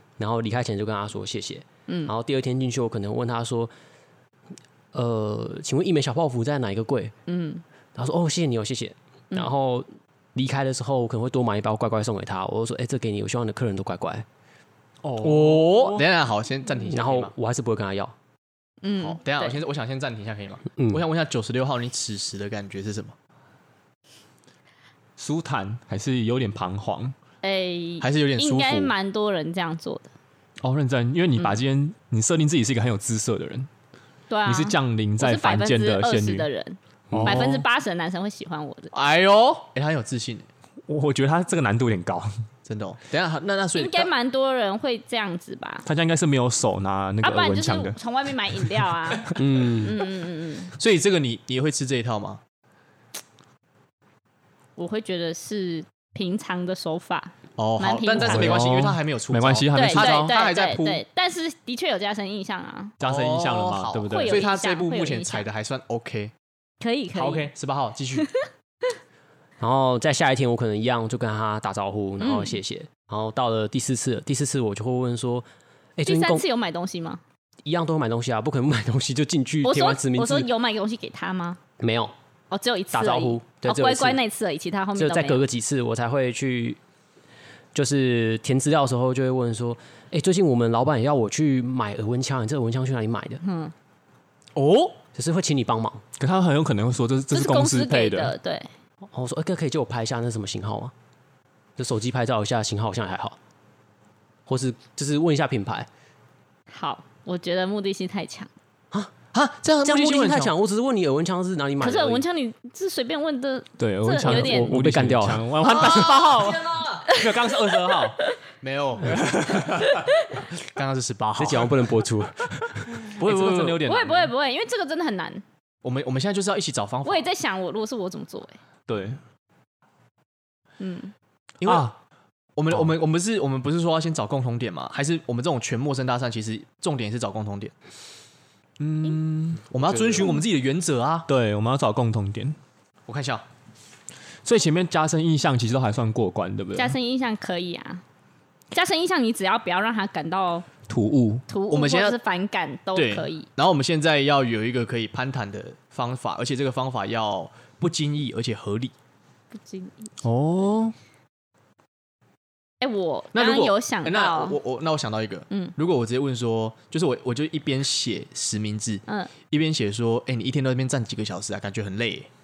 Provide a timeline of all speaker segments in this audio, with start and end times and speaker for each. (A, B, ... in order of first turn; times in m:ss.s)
0:00.2-0:03.7 A
0:01.9-0:02.1 B
0:04.9-0:07.1 A
0:07.3-0:07.6 B
0:08.0-0:14.3 A
0:15.0-0:16.1 C
0:15.2-0:17.3 D
0:16.9-0:18.1 A
0:18.8-0:19.6 B
0:19.0-0:23.2 D
0:25.2-0:27.2 C
0:27.4-0:30.1 B
0:28.0-0:28.9 D
0:30.6-0:33.7 C
0:34.3-0:38.9 B
0:34.4-0:36.5 C
0:37.1-0:37.4 A
0:37.1-0:37.6 C
0:38.9-0:40.5 D
0:40.9-0:42.4 C
0:42.7-0:44.1 D
0:43.8-0:45.9 B
0:45.8-0:48.0 C
0:47.2-0:50.7 B
0:48.6-0:48.9 C
0:49.4-0:50.0 A
0:50.8-0:52.4 D
0:54.8-0:58.7 B
0:57.6-1:01.0 D
0:58.2-1:00.3 C
0:59.7-1:03.0 B
1:03.0-1:04.4 C
1:03.0-1:06.3 D
1:04.0-1:05.5 B
1:06.8-1:07.5 B
1:07.1-1:08.3 D
1:08.2-1:08.5 B
1:09.6-1:16.4 A
1:12.2-1:12.6 B
1:16.0-1:17.2 B
1:17.6-1:20.5 A
1:19.6-1:21.6 B
1:21.8-1:22.1 A
1:22.5-1:25.4 B
1:22.9-1:24.2 A
1:25.0-1:26.8 A
1:27.7-1:33.4 A
1:33.4-1:33.7 B
1:34.6-1:35.0 D
1:35.2-1:36.0 A
1:36.2-1:38.4 C
1:37.3-1:38.7 B
1:39.1-1:40.9 A
1:41.8-1:43.4 A
1:44.5-1:45.9 A
1:46.7-1:48.5 B
1:49.3-1:50.5 D
1:49.8-1:52.2 A
1:51.8-1:54.8 B
1:53.8-1:58.2 C
1:54.2-1:55.5 A
1:55.6-1:57.1 D
1:55.8-1:56.1 B
1:58.6-1:59.7 D
1:59.0-2:00.0 C
2:00.0-2:00.4 B
2:00.6-2:01.8 D
2:01.4-2:03.8 A
2:02.9-2:04.3 C
2:03.8-2:05.4 B
2:05.8-2:07.3 D
2:07.0-2:08.6 B
2:08.9-2:09.2 C
2:10.8-2:11.1 B
2:11.6-2:12.0 D
2:11.6-2:11.9 C
2:12.6-2:17.7 D
2:18.8-2:19.6 C
2:19.7-2:21.3 D
2:21.3-2:22.6 C
2:23.1-2:23.4 D
2:24.4-2:27.0 C
2:26.8-2:28.0 B
2:28.7-2:30.7 B
2:30.9-2:31.4 C
2:31.5-2:33.5 B
2:31.7-2:32.2 D
2:33.0-2:38.9 D
2:39.5-2:40.1 B
2:40.2-2:41.0 C
2:42.8-2:44.6 B
2:43.3-2:52.3 D